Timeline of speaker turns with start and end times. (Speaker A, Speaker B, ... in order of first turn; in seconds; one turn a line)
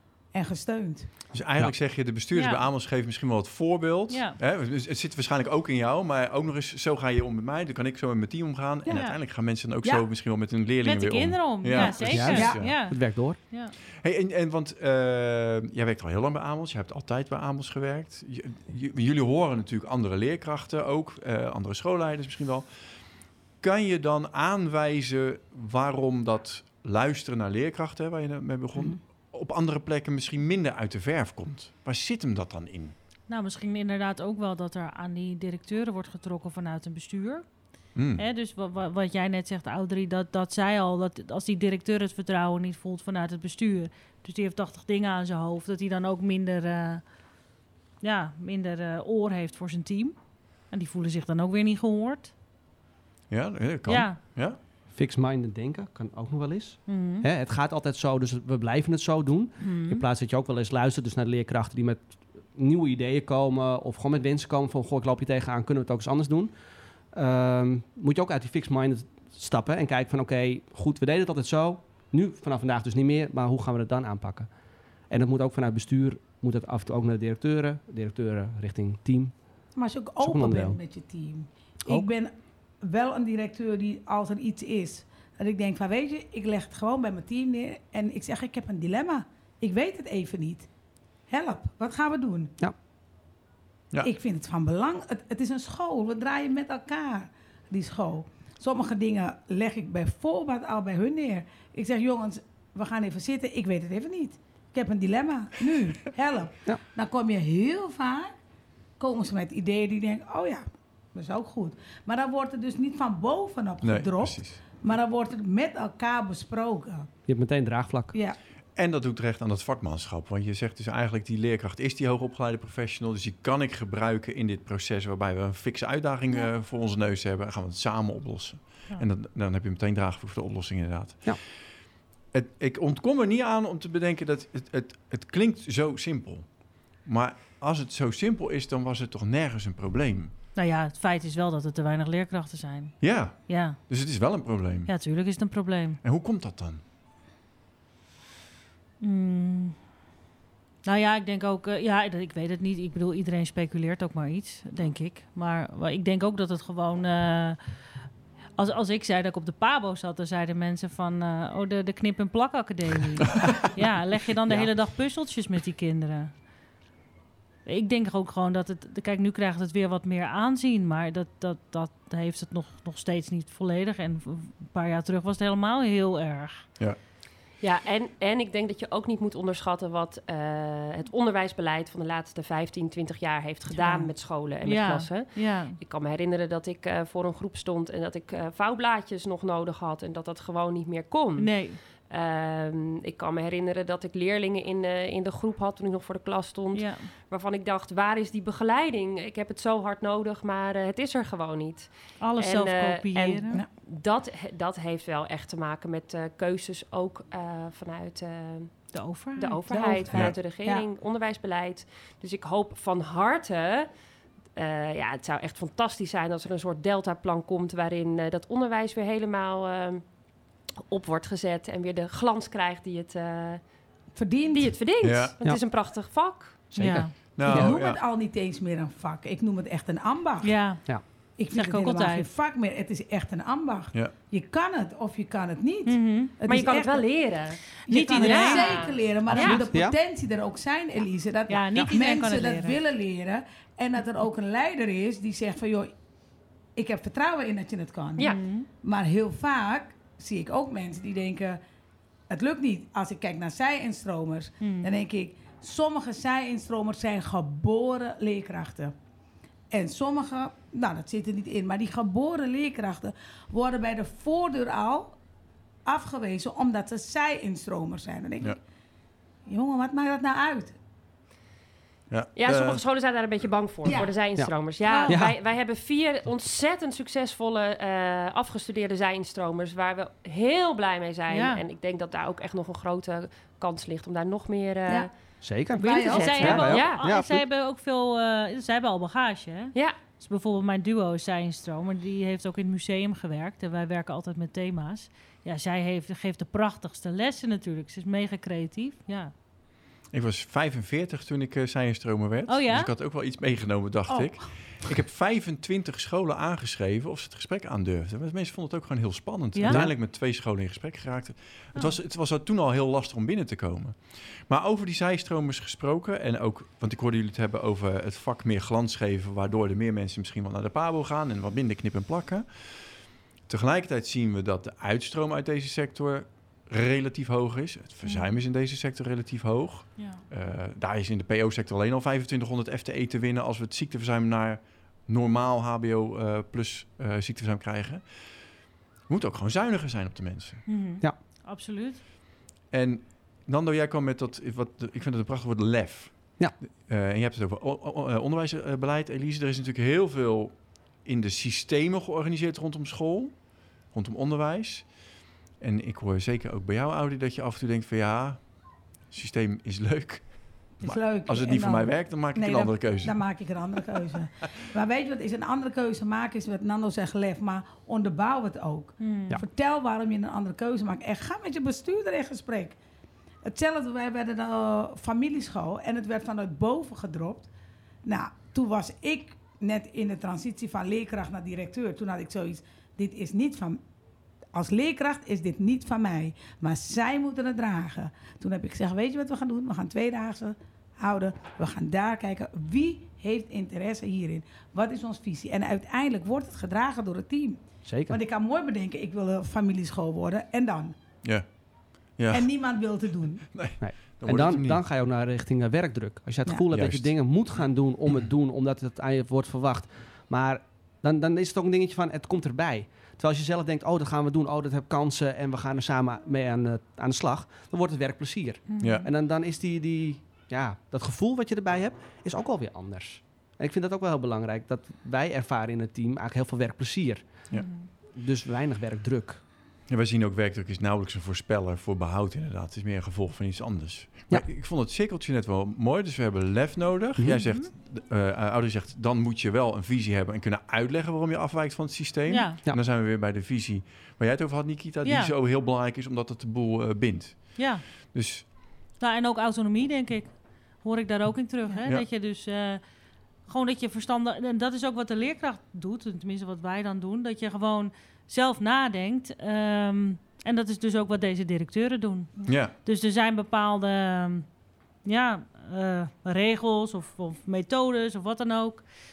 Speaker A: 0.3-1.1
Speaker B: 1.3-12.7
Speaker C: 2.3-2.6
Speaker C: 4.1-4.4
Speaker A: 8.8-9.1
Speaker C: 8.9-9.2
Speaker C: 10.8-13.7
Speaker A: 11.8-12.7
Speaker D: 11.9-13.4
Speaker B: 14.0-22.7
Speaker B: 23.6-32.9
Speaker C: 33.3-37.4
Speaker B: 37.9-38.2
Speaker C: 38.1-47.0
Speaker C: 48.0-50.1
Speaker C: 50.7-52.3
Speaker B: 53.3-54.6
Speaker C: 53.9-54.2
Speaker D: 54.9-66.5
Speaker C: 56.9-57.3
Speaker C: 59.6-60.0
Speaker D: 67.1-74.5
Speaker D: 75.1-79.4
Speaker A: 79.7-90.7
Speaker D: 80.2-80.8
Speaker A: 91.3-92.6
Speaker A: 94.0-108.3
Speaker A: 109.0-117.1
Speaker B: 113.8-114.6
Speaker D: 117.3-118.1
Speaker A: 118.1-118.4
Speaker B: 118.8-131.4
Speaker B: 132.3-140.3
Speaker C: 140.5-143.8
Speaker B: 143.0-144.9
Speaker C: 144.9-146.0
Speaker B: 146.0-146.8
Speaker C: 149.0-149.8
Speaker C: 150.8-157.6
Speaker C: 158.6-166.4
Speaker D: 164.5-164.7
Speaker C: 167.6-176.6
Speaker E: 177.6-213.9
Speaker C: 183.8-184.1
Speaker C: 184.6-185.8
Speaker C: 191.4-191.8
Speaker C: 196.7-197.1
Speaker C: 202.2-203.6
Speaker C: 208.9-209.6
Speaker A: 209.7-210.8
Speaker E: 214.5-220.0
Speaker E: 220.7-223.6
Speaker A: 224.1-224.7
Speaker E: 224.5-226.7
Speaker B: 225.0-225.3
Speaker D: 226.7-227.8
Speaker C: 226.8-227.1
Speaker B: 227.3-228.0
Speaker A: 227.4-230.8
Speaker C: 230.4-232.3
Speaker A: 231.3-237.1
Speaker C: 235.8-236.3
Speaker E: 236.4-239.7
Speaker C: 237.9-239.0
Speaker A: 237.9-245.9
Speaker D: 239.3-240.0
Speaker C: 241.5-242.8
Speaker A: 246.8-251.6
Speaker E: 248.2-248.4
Speaker C: 248.2-248.7
Speaker A: 252.3-258.9
Speaker C: 254.6-254.9
Speaker A: 259.7-265.2
Speaker A: 265.8-268.6
Speaker A: 269.4-270.8
Speaker B: 272.1-272.8
Speaker E: 272.4-285.1
Speaker A: 273.9-274.1
Speaker C: 274.8-275.2
Speaker D: 275.1-275.3
Speaker C: 281.3-281.6
Speaker D: 285.4-287.4
Speaker E: 285.7-287.1
Speaker A: 285.8-286.6
Speaker C: 285.9-299.3
Speaker E: 289.7-290.0
Speaker B: 300.1-322.9
Speaker C: 302.5-302.9
Speaker A: 304.1-304.3
Speaker C: 309.5-309.8
Speaker D: 309.7-309.9
Speaker B: 323.4-338.1
Speaker C: 328.0-328.3
Speaker C: 330.0-330.2
Speaker B: 339.1-340.7
Speaker C: 340.7-342.0
Speaker B: 342.7-363.2
Speaker A: 360.8-372.8
Speaker C: 369.0-369.4
Speaker A: 373.4-377.5
Speaker A: 378.0-383.8
Speaker A: 384.5-400.9
Speaker D: 397.8-398.2
Speaker B: 402.0-402.5
Speaker A: 402.3-403.7
Speaker B: 403.5-404.8
Speaker D: 403.8-429.4
Speaker B: 406.7-407.2
Speaker C: 418.7-419.1
Speaker B: 418.8-419.1
Speaker C: 427.5-427.9
Speaker B: 429.9-448.5
Speaker C: 437.4-437.7
Speaker C: 442.3-442.6
Speaker C: 445.0-445.3
Speaker C: 447.6-447.8
Speaker C: 449.0-452.8
Speaker C: 453.4-464.5
Speaker B: 462.4-462.7
Speaker C: 465.0-468.8